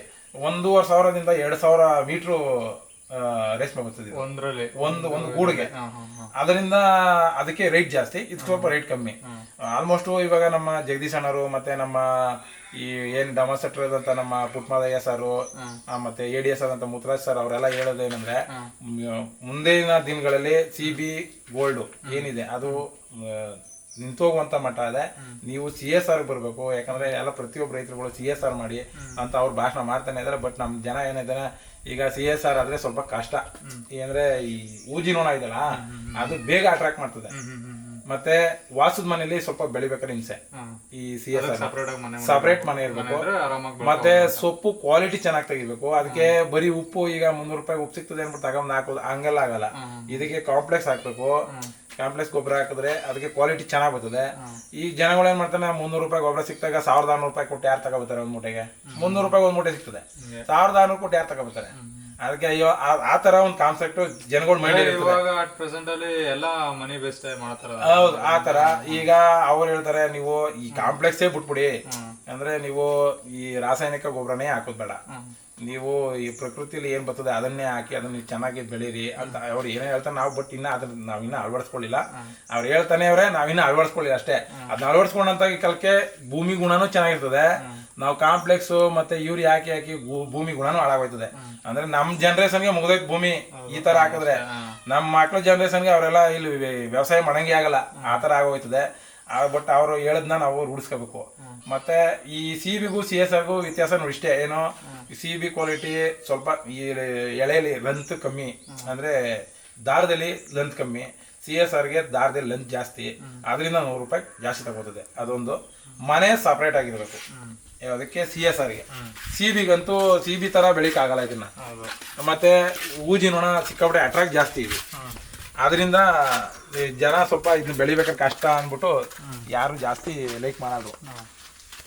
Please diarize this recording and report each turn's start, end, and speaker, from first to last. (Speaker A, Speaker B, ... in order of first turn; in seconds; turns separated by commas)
Speaker A: 0.4-4.2, Speaker B: 4.1-6.3, Speaker A: 4.8-5.7, Speaker A: 6.3-37.3, Speaker B: 8.4-8.7, Speaker B: 22.0-22.8, Speaker B: 29.0-29.2, Speaker B: 35.7-36.4, Speaker B: 37.3-38.0, Speaker A: 38.1-40.4, Speaker A: 40.9-43.3, Speaker B: 41.3-44.4, Speaker A: 43.8-51.4, Speaker B: 46.0-46.3, Speaker B: 49.8-50.3, Speaker A: 52.0-65.2, Speaker B: 58.9-59.3, Speaker B: 60.2-60.5, Speaker B: 61.8-62.1, Speaker B: 64.6-69.1, Speaker A: 67.8-71.7, Speaker B: 70.7-71.0, Speaker B: 71.9-72.2, Speaker A: 72.3-75.0, Speaker A: 75.6-117.2, Speaker B: 87.6-87.8, Speaker B: 93.5-94.8, Speaker B: 108.7-108.9, Speaker B: 115.2-115.5, Speaker B: 117.3-117.6, Speaker A: 117.8-121.5, Speaker B: 118.9-119.2, Speaker B: 121.6-121.9, Speaker A: 122.2-124.8, Speaker A: 125.6-130.9